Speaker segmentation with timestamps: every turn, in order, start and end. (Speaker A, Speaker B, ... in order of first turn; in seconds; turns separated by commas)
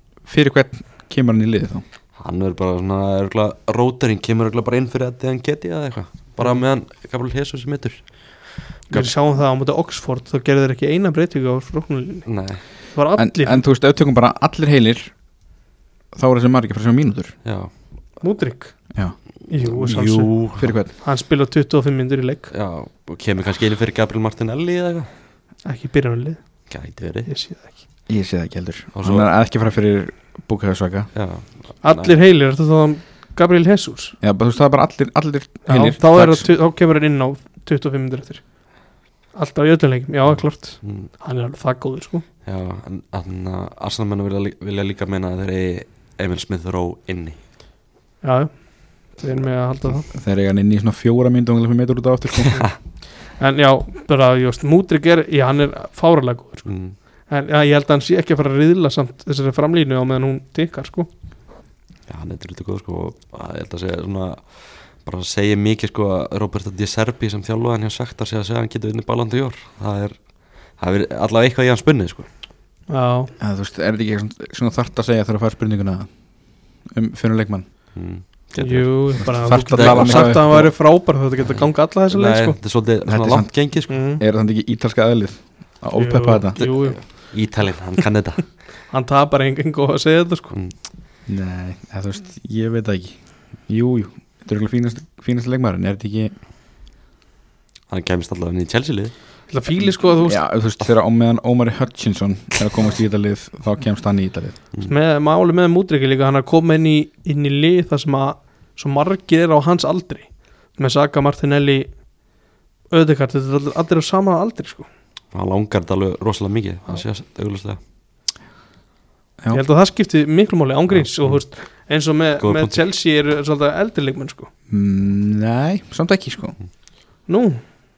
Speaker A: 0.2-1.8, Speaker B: 2.2-9.1, Speaker C: 8.9-12.3, Speaker B: 12.2-12.6, Speaker C: 12.9-13.6, Speaker A: 13.2-15.1, Speaker A: 16.1-17.4, Speaker B: 17.4-17.7, Speaker C: 18.2-18.8, Speaker C: 19.5-20.3, Speaker B: 19.5-20.8, Speaker A: 20.6-20.9, Speaker C: 21.0-22.5, Speaker B: 22.5-25.1, Speaker C: 25.6-26.4, Speaker B: 26.7-27.3, Speaker C: 27.3-27.8, Speaker A: 28.1-31.1, Speaker B: 28.9-29.3, Speaker B: 31.1-32.2, Speaker C: 31.8-34.1, Speaker A: 34.2-36.5, Speaker C: 35.6-38.4, Speaker C: 39.3-42.2, Speaker B: 40.3-41.1, Speaker B: 42.4-47.4, Speaker C: 48.2-50.0, Speaker A: 50.1-52.7, Speaker C: 53.4-56.7, Speaker B: 56.6-57.0, Speaker C: 57.3-61.1, Speaker B: 62.1-70.2, Speaker B: 70.7-72.3, Speaker C: 72.9-73.3, Speaker A: 73.4-76.1, Speaker A: 76.9-77.7, Speaker B: 77.9-80.7, Speaker C: 78.5-82.6, Speaker A: 79.2-80.7, Speaker B: 81.5-84.0, Speaker A: 83.0-83.5, Speaker C: 83.9-84.2, Speaker A: 84.2-86.6, Speaker C: 85.9-87.3, Speaker B: 86.5-88.5, Speaker C: 88.9-90.5, Speaker A: 91.3-96.3, Speaker B: 97.9-99.1, Speaker C: 99.5-100.4, Speaker A: 99.8-104.5, Speaker C: 104.8-112.0, Speaker C: 112.9-114.9, Speaker B: 115.3-117.8, Speaker C: 119.5-124.5, Speaker B: 120.9-121.4, Speaker B: 122.4-122.9, Speaker A: 124.7-126.5, Speaker C: 127.3-127.6